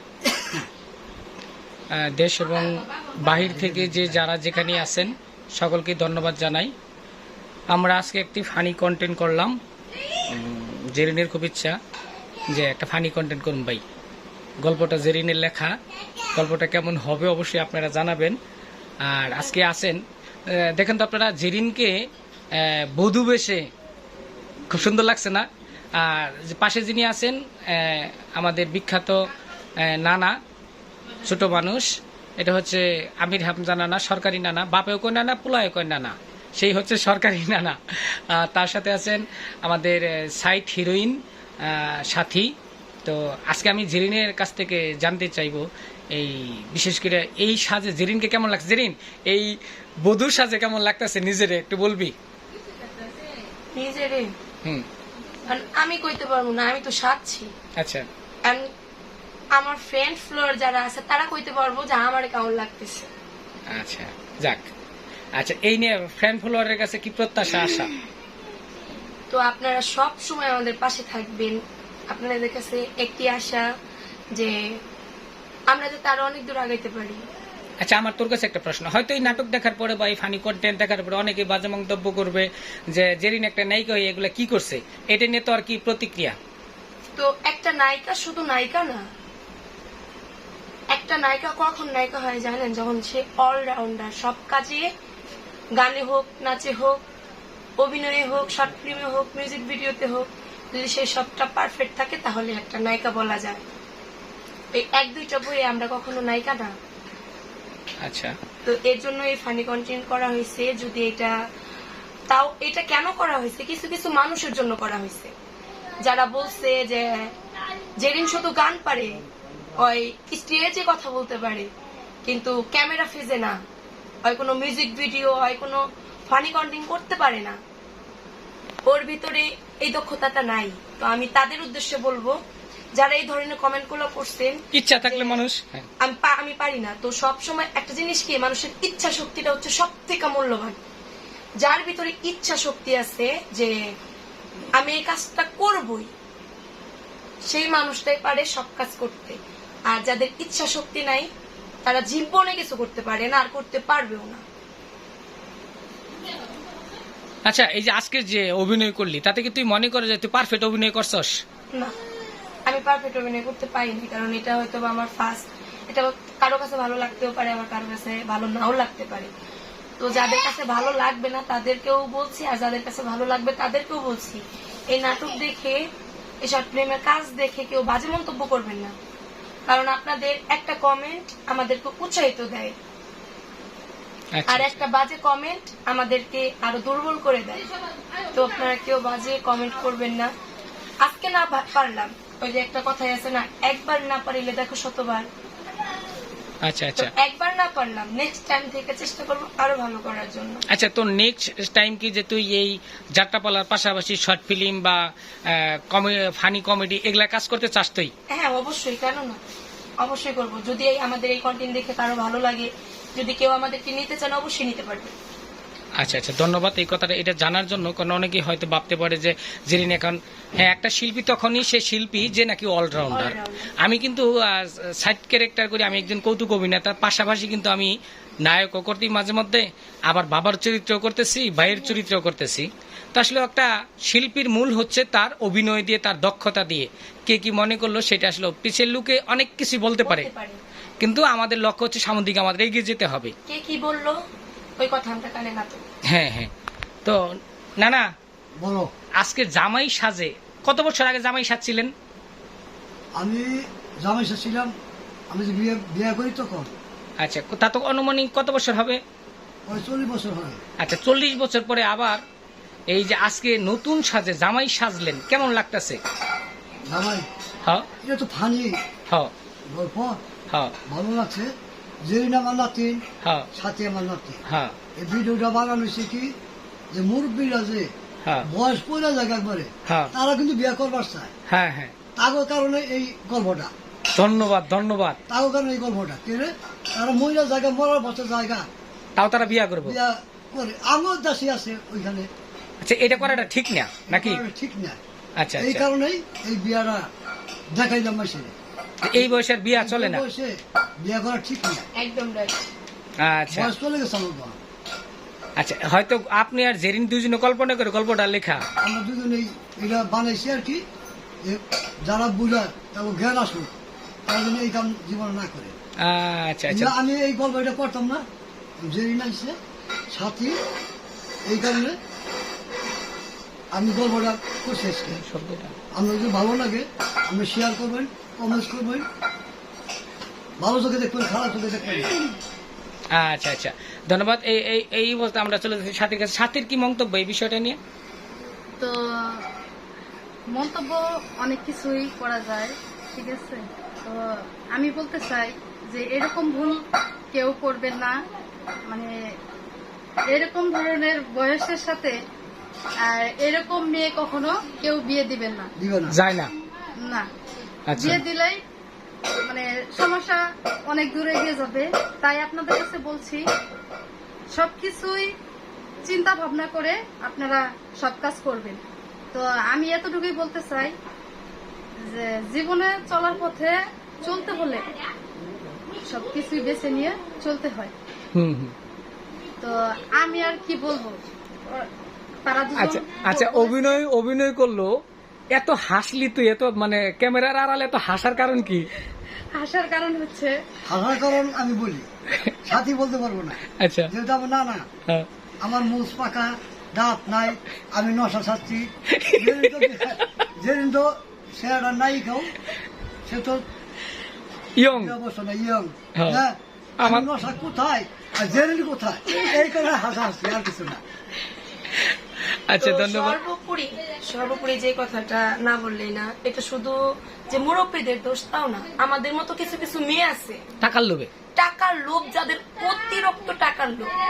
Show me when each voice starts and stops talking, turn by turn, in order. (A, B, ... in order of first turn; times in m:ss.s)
0:00.3-0:00.6 A
0:01.9-0:06.7 B
0:03.4-0:04.1 A
0:07.7-0:09.6 B
0:10.3-0:11.8 B
0:12.5-0:13.8 B
0:14.6-0:15.8 B
0:16.4-0:18.4 B
0:19.0-0:21.9 B
0:22.5-0:23.7 B
0:24.7-0:30.4 B
0:31.2-0:31.9 B
0:32.4-0:42.5 B
0:43.0-0:52.1 B
0:53.7-0:54.3 C
0:55.5-0:57.5 C
0:57.8-0:58.1 B
0:59.6-1:03.1 C
1:03.7-1:04.7 B
1:05.4-1:07.9 B
1:09.3-1:11.6 C
1:12.1-1:13.7 C
1:14.3-1:14.6 C
1:15.7-1:17.2 C
1:17.8-1:26.4 B
1:27.2-1:29.0 C
1:30.9-1:34.9 C
1:35.8-1:37.0 C
1:37.8-1:43.6 C
1:44.7-1:46.7 C
1:48.0-1:48.4 B
1:48.6-1:51.3 C
1:52.3-1:55.3 C
1:56.0-1:57.3 C
1:58.0-1:59.2 C
1:59.8-2:01.7 C
2:02.3-2:03.6 C
2:04.2-2:07.6 C
2:08.9-2:12.4 C
2:13.0-2:15.4 C
2:14.7-2:15.9 B
2:16.0-2:20.8 C
2:21.6-2:23.7 C
2:24.8-2:26.1 C
2:27.5-2:31.3 C
2:31.8-2:34.4 C
2:37.4-2:41.3 B
2:42.7-2:49.3 C
2:50.0-2:55.8 C
2:56.4-2:58.9 C
2:59.7-3:02.7 C
3:04.3-3:04.8 B
3:04.5-3:07.6 C
3:08.3-3:10.3 C
3:11.0-3:15.3 C
3:16.6-3:17.1 B
3:17.0-3:20.6 C
3:20.7-3:28.1 B
3:28.3-3:29.4 C
3:30.0-3:35.1 C
3:36.0-3:47.9 B
3:43.1-3:43.7 C
3:48.4-4:00.3 B
3:51.7-3:52.0 C
4:00.0-4:00.6 C
4:01.0-4:03.3 B
4:03.5-4:04.2 C
4:04.8-4:05.8 C
4:06.1-4:06.5 B
4:07.0-4:08.1 B
4:08.6-4:08.9 A
4:09.2-4:11.9 B
4:13.2-4:14.7 A
4:15.3-4:16.7 A
4:17.2-4:19.0 B
4:19.7-4:20.6 A
4:20.8-4:22.2 B
4:22.9-4:26.0 B
4:26.9-4:27.3 A
4:28.0-4:28.8 A
4:29.7-4:30.2 A
4:30.9-4:31.5 A
4:32.0-4:33.0 A
4:33.2-4:33.5 B
4:33.5-4:34.4 A
4:34.5-4:34.8 B
4:35.0-4:36.3 A
4:36.9-4:37.9 A
4:38.4-4:41.3 A
4:39.9-4:40.1 B
4:41.5-4:42.0 B
4:42.2-4:43.7 A
4:44.2-4:45.2 B
4:45.3-4:48.7 A
4:49.2-4:50.0 B
4:49.8-4:52.3 A
4:52.8-4:54.4 B
4:53.2-4:53.4 A
4:54.1-4:55.0 A
4:55.4-4:55.8 B
4:55.6-4:57.1 A
4:57.7-4:58.5 A
4:59.0-5:00.2 B
4:59.1-5:01.9 A
5:02.0-5:02.7 C
5:03.2-5:03.7 B
5:03.5-5:04.6 A
5:05.6-5:08.6 B
5:08.8-5:10.8 A
5:11.4-5:13.7 A
5:14.3-5:15.7 A
5:16.0-5:16.9 B
5:16.7-5:18.2 A
5:18.8-5:19.6 A
5:20.1-5:20.6 A
5:21.5-5:22.0 A
5:23.7-5:25.2 A
5:25.1-5:25.8 B
5:26.0-5:29.0 A
5:30.6-5:32.1 A
5:33.1-5:37.8 B
5:38.8-5:39.5 D
5:40.5-5:46.8 D
5:47.3-5:48.2 D
5:48.9-5:49.2 D
5:50.3-5:52.2 D
5:53.0-5:55.7 D
5:55.8-5:56.2 A
5:56.1-5:56.5 B
5:57.0-5:57.3 D
5:57.9-5:58.2 B
5:58.0-5:58.6 D
5:59.5-6:03.4 D
6:04.5-6:05.3 D
6:06.0-6:08.8 D
6:09.3-6:10.9 D
6:12.1-6:14.8 D
6:16.0-6:17.9 D
6:18.4-6:18.7 B
6:19.6-6:21.9 D
6:22.4-6:24.0 D
6:22.8-6:24.9 B
6:25.5-6:28.9 B
6:29.5-6:30.6 D
6:30.9-6:32.1 A
6:32.6-6:34.9 A
6:33.8-6:34.1 B
6:35.6-6:42.6 A
6:39.1-6:40.4 B
6:43.3-6:43.6 A
6:44.8-6:45.2 B
6:44.9-6:51.0 A
6:46.2-6:46.4 B
6:47.0-6:47.3 B
6:49.4-6:49.6 B
6:51.9-6:53.4 B
6:52.8-6:57.0 C
6:57.5-7:00.6 C
7:00.8-7:01.3 B
7:01.6-7:04.1 C